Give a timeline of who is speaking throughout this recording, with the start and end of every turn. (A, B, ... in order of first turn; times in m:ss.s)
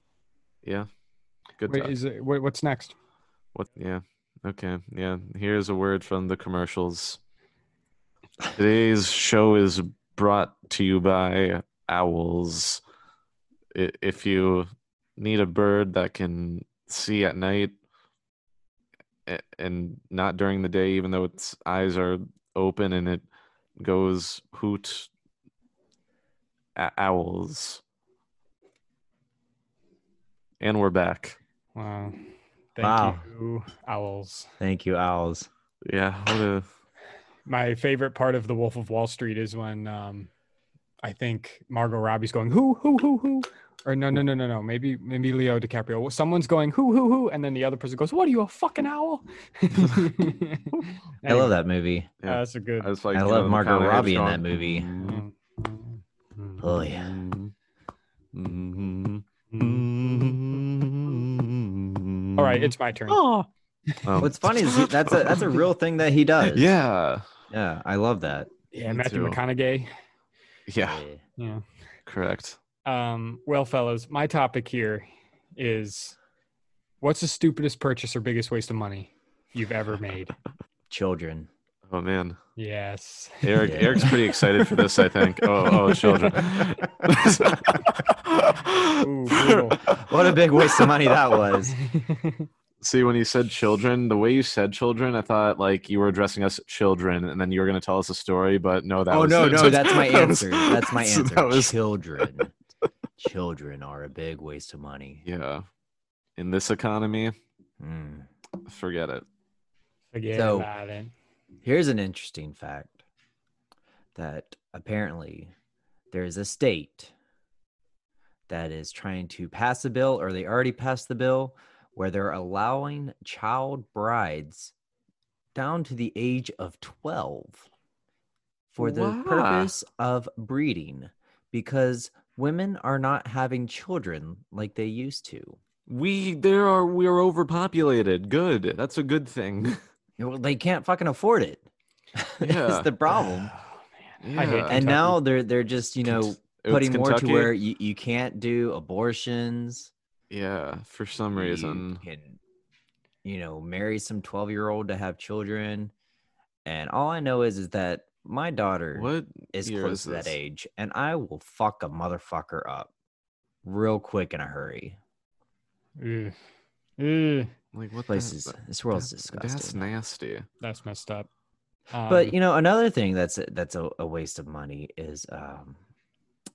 0:01.6-0:01.9 A
0:01.7-0:02.9 B
0:03.5-0:07.2 A
0:08.5-0:12.8 A
0:13.7-0:17.7 A
0:19.3-0:23.2 A
0:23.8-0:25.1 A
0:26.8-0:27.8 A
0:30.6-0:31.4 A
0:31.7-0:34.5 B
0:32.8-0:33.2 C
0:34.6-0:35.5 C
0:35.8-0:36.6 A
0:37.5-0:40.3 B
0:41.0-0:51.5 B
0:51.2-0:52.1 C
0:52.2-0:55.2 A
0:52.2-0:52.9 B
0:53.1-0:54.9 C
0:55.0-0:56.6 B
0:56.6-0:57.1 C
0:56.6-0:57.5 A
0:58.3-1:03.5 A
0:59.5-0:59.9 B
1:02.4-1:03.2 B
1:04.0-1:05.6 A
1:04.2-1:06.7 C
1:06.5-1:07.2 A
1:07.5-1:08.5 C
1:08.7-1:09.9 B
1:08.8-1:09.4 A
1:10.7-1:11.0 A
1:10.8-1:11.2 C
1:11.4-1:11.6 B
1:12.0-1:12.6 A
1:12.8-1:15.0 B
1:15.6-1:16.2 B
1:17.0-1:20.3 B
1:20.9-1:21.5 C
1:21.9-1:22.4 A
1:22.6-1:24.1 B
1:23.4-1:31.2 A
1:23.6-1:24.2 C
1:25.9-1:26.4 B
1:29.0-1:29.8 B
1:30.0-1:31.7 C
1:31.7-1:32.5 B
1:32.8-1:42.4 A
1:39.1-1:42.5 C
1:43.2-1:45.2 C
1:45.2-1:45.6 A
1:46.4-1:47.3 A
1:47.8-1:48.3 C
1:48.6-1:49.2 A
1:50.1-1:51.1 B
1:50.3-1:50.7 C
1:51.6-1:53.0 C
1:54.2-1:55.5 C
1:56.1-1:57.1 C
1:58.5-2:04.7 C
2:05.5-2:07.7 C
2:08.7-2:15.6 C
2:08.8-2:09.7 A
2:15.9-2:19.8 A
2:20.2-2:23.5 C
2:22.4-2:22.9 A
2:24.2-2:25.1 A
2:24.4-2:25.1 B
2:24.7-2:29.9 C
2:26.1-2:27.5 A
2:30.3-2:32.0 A
2:31.4-2:32.4 C
2:33.2-2:35.9 C
2:36.6-2:42.9 C
2:38.9-2:40.4 A
2:43.6-2:45.0 C
2:46.0-2:46.3 B
2:47.0-2:47.5 B
2:47.7-2:50.5 A
2:48.1-2:49.9 C
2:50.6-2:51.3 B
2:51.9-2:52.3 B
2:52.1-2:55.8 C